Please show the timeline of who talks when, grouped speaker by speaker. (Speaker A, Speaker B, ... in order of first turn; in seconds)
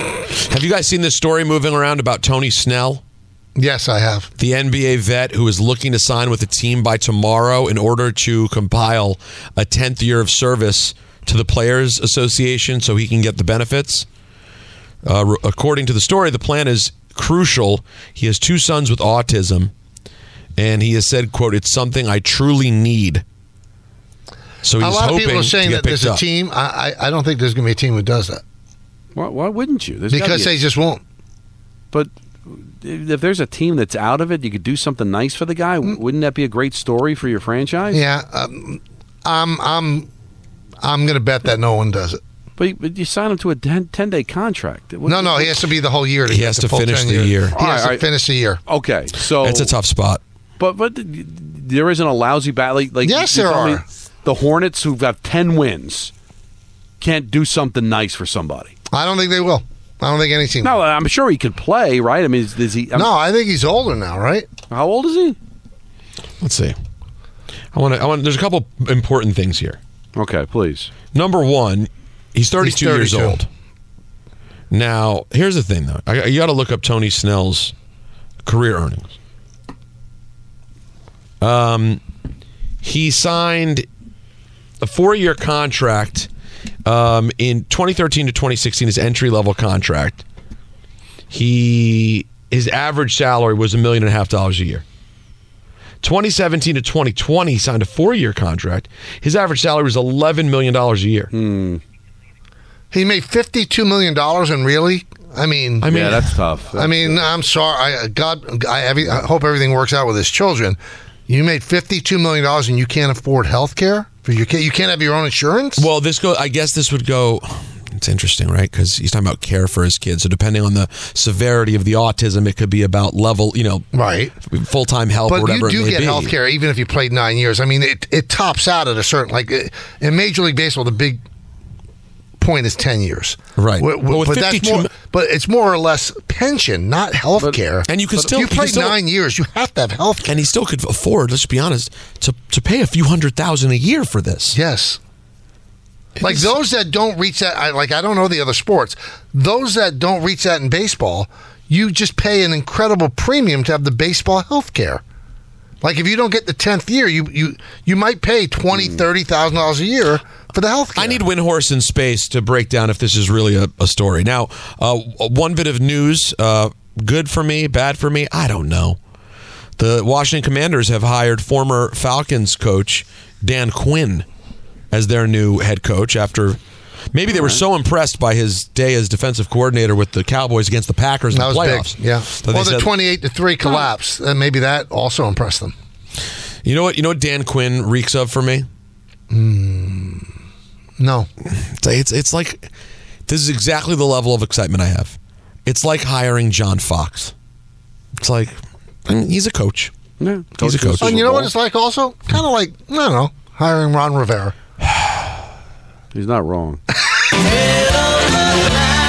Speaker A: 0.5-3.0, 4.4-14.1, 15.0-19.7, 20.6-23.2, 24.6-26.2, 46.3-47.5, 49.4-50.2, 66.4-66.8, 67.7-69.8, 71.1-73.5, 74.7-77.7, 78.4-79.1, 81.4-82.0, 82.8-83.9, 84.8-86.3, 86.9-90.2, 91.3-94.8, 96.0-101.3, 105.8-106.3, 115.8-123.9, 124.5-126.3, 133.6-134.9, 137.9-139.0, 140.2-144.6, 146.2-146.5, 160.9-169.0, 169.8-174.3, 174.9-176.6, 177.1-182.9, 186.6-188.7, 191.8-192.7, 193.3-197.3, 198.2-199.9, 200.6-201.3
Speaker B: 3.6-4.3, 24.8-28.4, 30.1-31.0, 37.9-40.1, 40.8-42.2, 45.1-48.6, 53.0-53.8, 58.9-60.8, 62.9-64.5, 72.6-73.4, 102.9-105.9, 106.8-115.9, 123.9-124.3, 125.3-131.2, 132.4-140.3, 144.5-145.0, 146.2-155.0, 155.8-161.2, 181.3-185.8, 189.3-190.3, 191.0-191.3, 201.0-204.6
Speaker C: 29.1-30.6, 31.9-38.0, 42.6-45.6, 47.6-48.1, 48.6-49.8, 50.6-56.1, 57.0-58.7, 60.6-63.1, 64.7-65.4, 70.2-70.9, 101.3-101.8, 105.8-107.3, 177.3-177.6, 200.2-201.5, 206.1-206.8